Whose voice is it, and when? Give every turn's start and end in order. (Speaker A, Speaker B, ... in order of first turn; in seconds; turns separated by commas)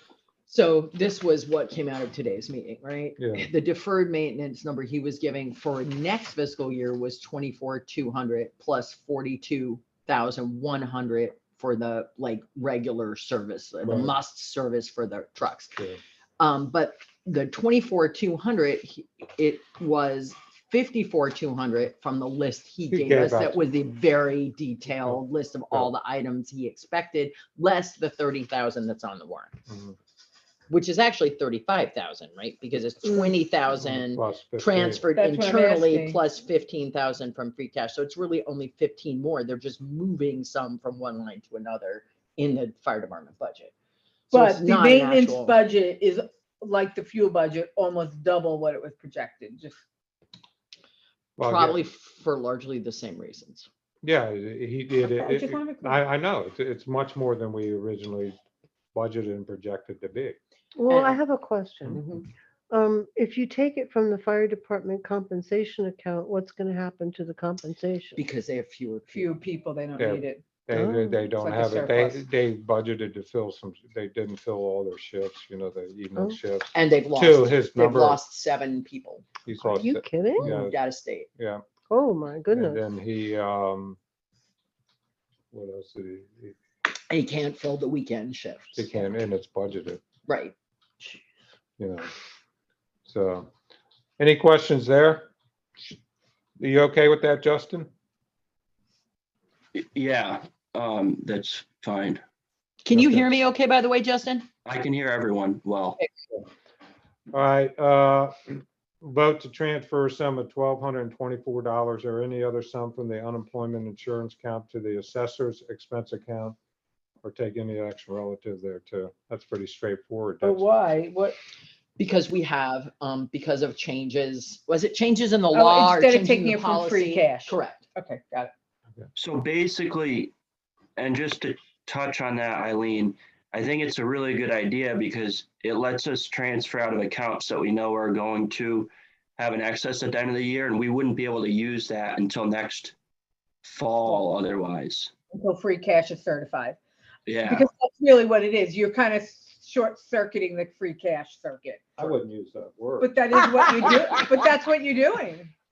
Speaker A: 0.5-15.7, Speaker B: 3.2-3.5, Speaker B: 13.8-14.2, Speaker A: 16.4-29.5, Speaker B: 22.9-23.6, Speaker B: 24.9-25.2, Speaker B: 29.7-29.9, Speaker A: 30.7-43.7, Speaker B: 33.7-35.0, Speaker C: 35.1-36.2, Speaker A: 44.3-45.6, Speaker C: 44.3-49.8, Speaker B: 51.4-51.8, Speaker A: 51.4-53.7, Speaker B: 54.0-58.4, Speaker C: 55.0-56.0, Speaker B: 58.9-60.4, Speaker D: 60.7-62.1, Speaker A: 60.9-61.2, Speaker A: 61.9-62.2, Speaker D: 62.7-68.2, Speaker A: 68.2-69.3, Speaker C: 69.1-70.4, Speaker B: 70.0-78.2, Speaker D: 70.7-71.3, Speaker C: 71.3-72.2, Speaker A: 76.7-79.4, Speaker B: 79.5-80.8, Speaker D: 79.6-80.6, Speaker A: 80.4-81.3, Speaker B: 81.3-81.6, Speaker D: 81.9-82.8, Speaker B: 82.5-84.0, Speaker B: 85.5-86.5, Speaker A: 87.1-88.9, Speaker B: 88.8-90.0, Speaker A: 90.3-91.1, Speaker B: 91.8-92.1, Speaker B: 93.1-93.5, Speaker B: 94.2-96.0, Speaker B: 96.6-97.9, Speaker E: 99.7-102.2, Speaker A: 102.8-104.5, Speaker B: 102.9-103.4, Speaker E: 104.6-106.0, Speaker B: 107.3-116.5, Speaker B: 117.2-120.7, Speaker C: 120.4-121.3, Speaker A: 122.0-127.9, Speaker C: 125.5-128.5, Speaker E: 129.2-130.3, Speaker E: 131.0-142.9, Speaker E: 143.6-145.1, Speaker C: 145.3-146.8, Speaker E: 147.2-147.7, Speaker C: 147.4-151.9, Speaker B: 152.0-153.2, Speaker C: 153.0-155.5